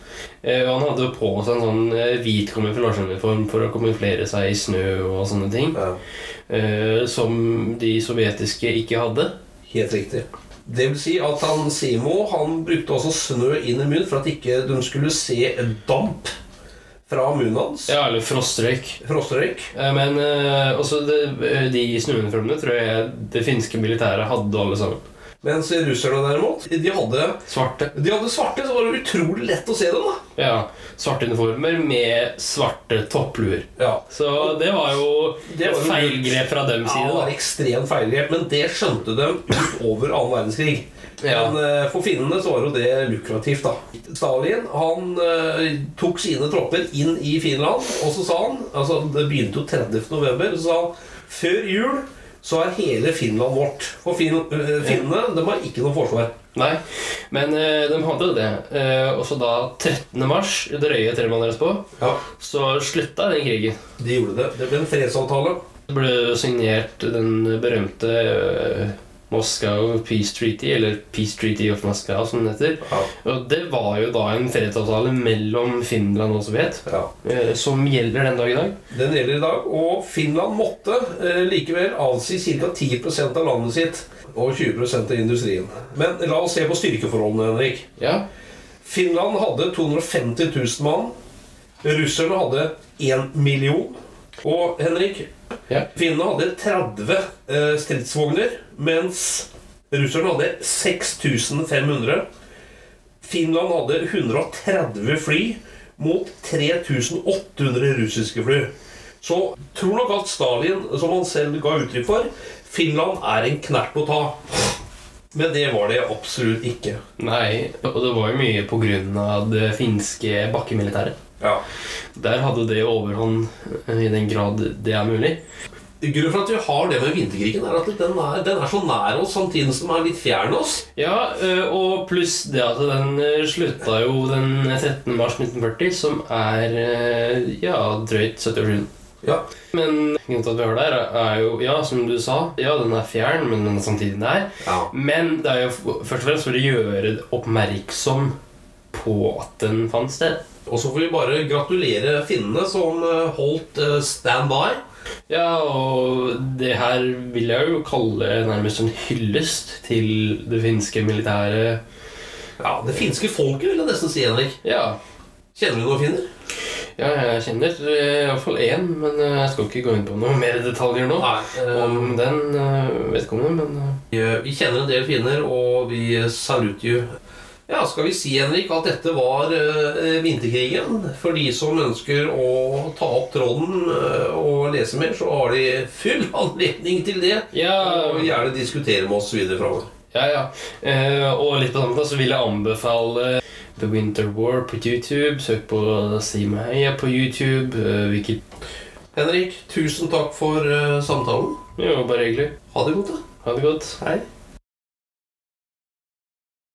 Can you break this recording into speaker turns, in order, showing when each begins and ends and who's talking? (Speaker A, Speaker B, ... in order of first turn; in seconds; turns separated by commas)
Speaker A: 0.4-5.8, Speaker B: 5.7-6.0, Speaker A: 6.5-9.3, Speaker B: 9.7-16.3, Speaker B: 17.1-17.9, Speaker A: 17.9-19.0, Speaker B: 19.0-19.7, Speaker A: 19.7-25.0, Speaker B: 25.4-30.2, Speaker A: 27.5-27.9, Speaker A: 30.4-37.3, Speaker B: 33.8-34.8, Speaker B: 35.4-56.3, Speaker A: 41.2-41.5, Speaker A: 54.8-55.1, Speaker A: 56.5-63.8, Speaker B: 64.0-65.6, Speaker A: 65.9-78.8, Speaker B: 72.8-73.1, Speaker B: 78.9-87.9, Speaker A: 88.0-88.2, Speaker B: 88.8-91.1, Speaker B: 91.8-95.3, Speaker B: 95.9-102.2, Speaker B: 103.2-114.5, Speaker B: 115.3-117.0, Speaker A: 117.2-121.2, Speaker A: 122.1-125.4, Speaker B: 126.0-130.8, Speaker A: 130.9-138.9, Speaker A: 139.7-148.3, Speaker B: 144.6-144.9, Speaker A: 148.9-150.4, Speaker B: 150.7-154.8, Speaker A: 155.3-161.8, Speaker B: 162.6-164.6, Speaker A: 164.6-165.0, Speaker B: 165.5-166.2, Speaker A: 167.0-174.0, Speaker B: 171.2-172.2, Speaker B: 174.1-177.1, Speaker B: 177.7-189.9, Speaker A: 187.5-188.4, Speaker A: 190.1-198.4, Speaker B: 199.1-201.6, Speaker A: 201.8-202.5, Speaker B: 202.7-203.2, Speaker A: 203.4-204.0